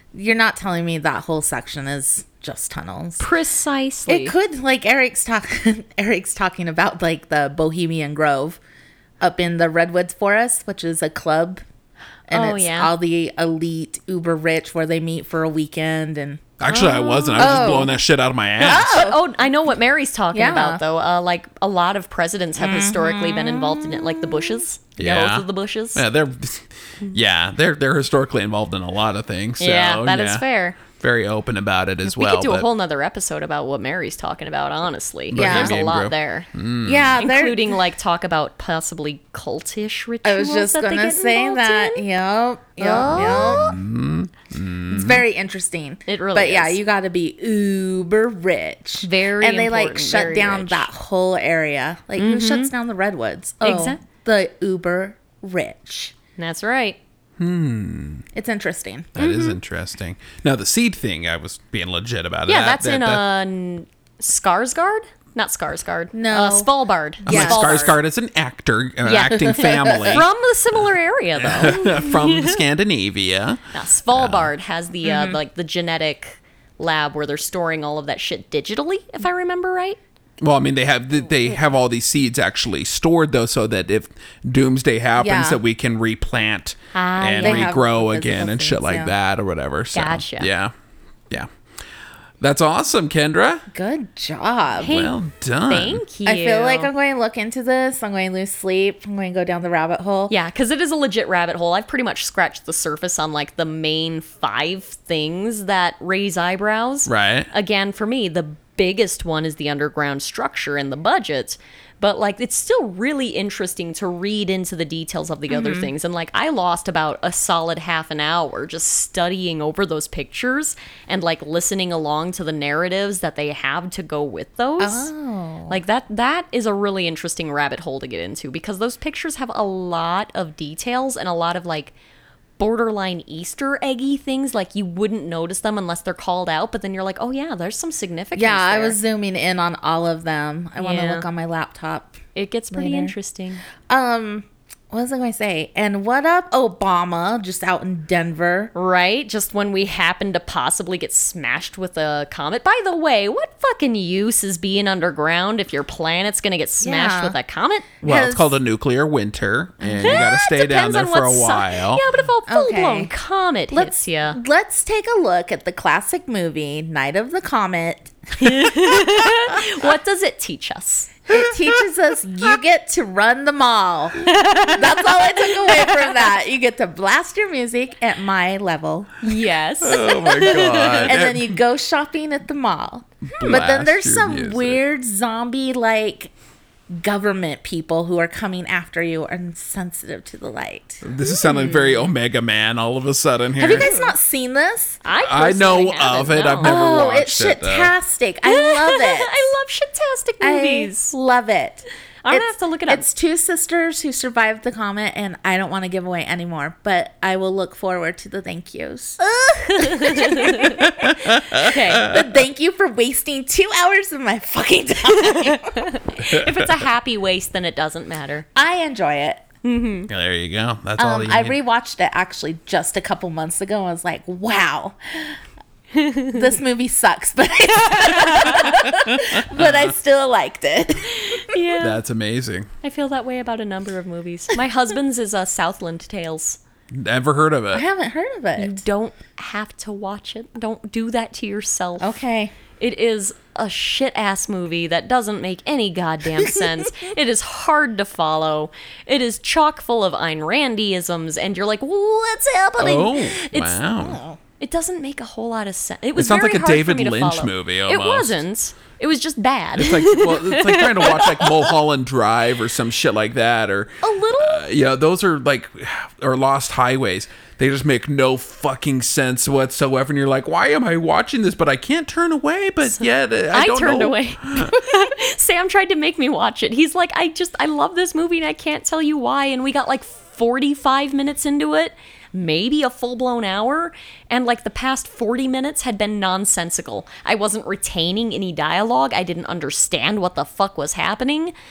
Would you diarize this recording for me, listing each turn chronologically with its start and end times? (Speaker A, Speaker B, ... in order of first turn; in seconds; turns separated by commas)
Speaker A: 0.1-3.3, Speaker B: 3.2-4.3, Speaker A: 4.1-8.6, Speaker A: 9.2-11.6, Speaker A: 12.3-16.4, Speaker B: 12.3-12.9, Speaker C: 16.6-19.1, Speaker B: 16.7-17.9, Speaker A: 17.4-17.9, Speaker A: 18.6-19.2, Speaker B: 18.6-26.0, Speaker A: 20.3-20.8, Speaker A: 22.6-24.6, Speaker C: 25.0-32.7, Speaker B: 29.6-30.8, Speaker B: 32.0-36.5, Speaker C: 35.3-37.2, Speaker A: 35.4-35.7, Speaker A: 36.8-37.8, Speaker B: 37.2-42.0, Speaker A: 40.2-43.8, Speaker B: 42.8-43.8, Speaker C: 43.1-45.2, Speaker A: 44.9-56.1, Speaker B: 46.1-46.8, Speaker B: 49.0-50.9, Speaker B: 52.2-52.7, Speaker B: 53.6-54.0, Speaker B: 56.4-57.0, Speaker C: 57.4-58.2, Speaker A: 58.3-59.1, Speaker C: 59.1-63.2, Speaker B: 59.2-59.6, Speaker B: 62.5-68.0, Speaker A: 66.1-67.7, Speaker C: 67.3-70.3, Speaker B: 69.0-72.6, Speaker A: 69.4-70.2, Speaker C: 71.4-74.5, Speaker B: 73.7-80.0, Speaker A: 75.0-75.4, Speaker C: 80.4-90.7, Speaker A: 85.2-85.6, Speaker B: 86.9-87.7, Speaker A: 87.4-89.1, Speaker B: 89.9-90.5, Speaker C: 92.4-93.7, Speaker A: 93.7-94.9, Speaker B: 94.8-95.2, Speaker C: 94.8-96.0, Speaker B: 95.7-96.9, Speaker A: 96.2-100.3, Speaker B: 100.3-125.1, Speaker C: 107.0-107.5, Speaker A: 115.5-115.9, Speaker A: 124.8-125.8, Speaker B: 125.7-131.9, Speaker B: 132.6-139.0, Speaker A: 138.3-142.2, Speaker B: 140.8-141.3, Speaker B: 142.3-143.6, Speaker A: 142.7-143.1, Speaker A: 143.9-148.7, Speaker B: 148.7-157.9, Speaker A: 156.8-157.4, Speaker A: 158.0-158.5, Speaker C: 158.0-162.0, Speaker B: 159.8-164.4, Speaker A: 160.0-160.3, Speaker A: 162.5-163.1, Speaker A: 163.7-169.3, Speaker B: 168.4-171.3, Speaker A: 171.3-179.1, Speaker B: 174.2-176.1, Speaker B: 179.2-181.1, Speaker C: 179.8-181.5, Speaker A: 181.0-186.3, Speaker C: 183.3-184.8, Speaker B: 183.3-183.6, Speaker A: 186.9-191.9, Speaker C: 191.0-193.9, Speaker A: 193.6-195.0, Speaker B: 193.6-194.1, Speaker B: 195.0-197.0, Speaker C: 195.2-197.9, Speaker A: 196.6-199.5, Speaker B: 198.4-201.2, Speaker A: 200.4-216.0, Speaker B: 202.2-203.1, Speaker B: 209.5-212.2, Speaker C: 210.6-212.2, Speaker B: 215.1-218.4, Speaker C: 216.3-216.7, Speaker A: 218.6-219.4, Speaker B: 219.6-220.1, Speaker C: 220.1-221.6, Speaker A: 221.0-225.4, Speaker B: 225.9-226.4, Speaker A: 226.2-231.6, Speaker B: 228.2-228.9, Speaker C: 228.6-229.9, Speaker B: 231.2-232.0, Speaker C: 231.8-232.7, Speaker B: 232.8-236.6, Speaker C: 236.9-237.8, Speaker A: 237.7-238.8, Speaker B: 238.6-242.2, Speaker A: 242.0-242.5, Speaker B: 242.8-253.8, Speaker C: 252.8-254.2, Speaker A: 254.0-254.4, Speaker B: 254.6-261.7, Speaker C: 256.1-258.4, Speaker C: 259.8-274.8, Speaker B: 264.0-264.6, Speaker B: 272.9-291.5